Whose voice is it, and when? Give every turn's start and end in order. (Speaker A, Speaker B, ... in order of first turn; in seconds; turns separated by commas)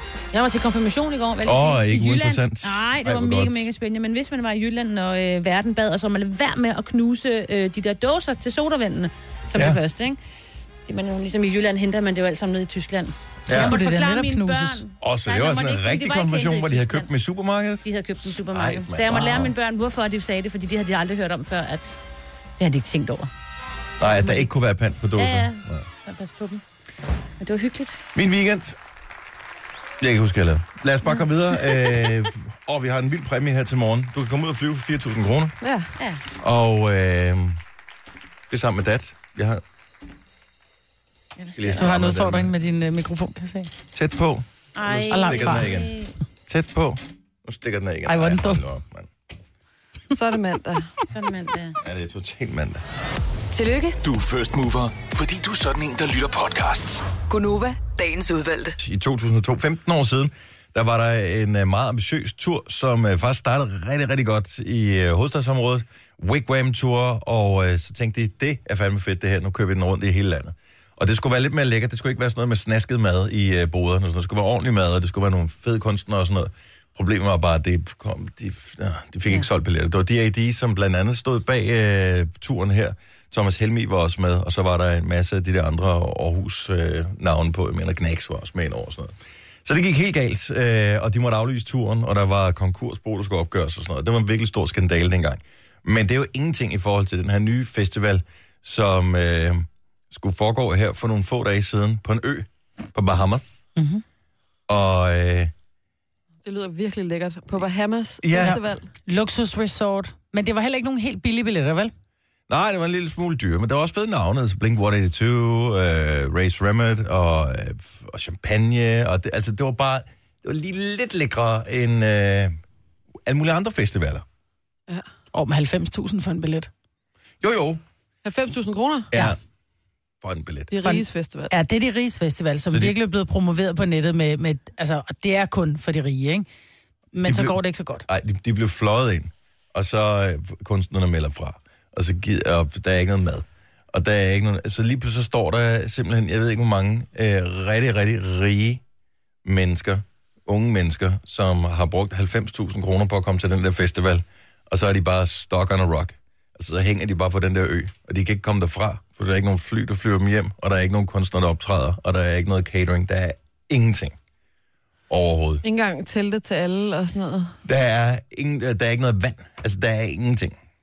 Speaker A: 0.3-10.2, Speaker B: 1.4-3.7, Speaker A: 10.9-17.1, Speaker B: 13.4-13.8, Speaker C: 13.5-14.8, Speaker B: 15.0-19.5, Speaker A: 17.8-22.0, Speaker A: 22.6-23.3, Speaker B: 24.0-25.9, Speaker A: 25.2-26.6, Speaker A: 27.4-28.0, Speaker B: 28.1-28.8, Speaker B: 30.0-35.6, Speaker D: 35.6-35.9, Speaker B: 36.4-37.6, Speaker B: 38.5-39.6, Speaker A: 41.4-41.9, Speaker B: 41.5-42.5, Speaker C: 41.8-43.7, Speaker B: 43.9-49.1, Speaker A: 44.7-46.1, Speaker C: 45.1-45.7, Speaker C: 48.0-48.6, Speaker D: 50.1-50.9, Speaker A: 51.1-51.8, Speaker B: 51.8-52.8, Speaker E: 53.5-54.0, Speaker F: 54.0-57.1, Speaker E: 57.3-58.8, Speaker B: 58.8-103.5, Speaker C: 103.8-104.0, Speaker B: 104.7-105.5, Speaker D: 106.4-108.9, Speaker B: 108.2-108.6, Speaker C: 108.3-111.9, Speaker B: 112.5-122.5, Speaker B: 123.2-124.2, Speaker C: 125.3-126.7, Speaker B: 127.4-127.8, Speaker D: 128.2-129.1, Speaker B: 129.1-129.4, Speaker B: 130.2-130.7, Speaker D: 130.7-131.5, Speaker C: 130.8-136.5, Speaker B: 132.7-132.9, Speaker C: 137.1-138.1, Speaker B: 137.2-148.8, Speaker B: 149.4-164.1, Speaker B: 165.1-165.6, Speaker D: 165.6-167.6, Speaker B: 167.6-170.5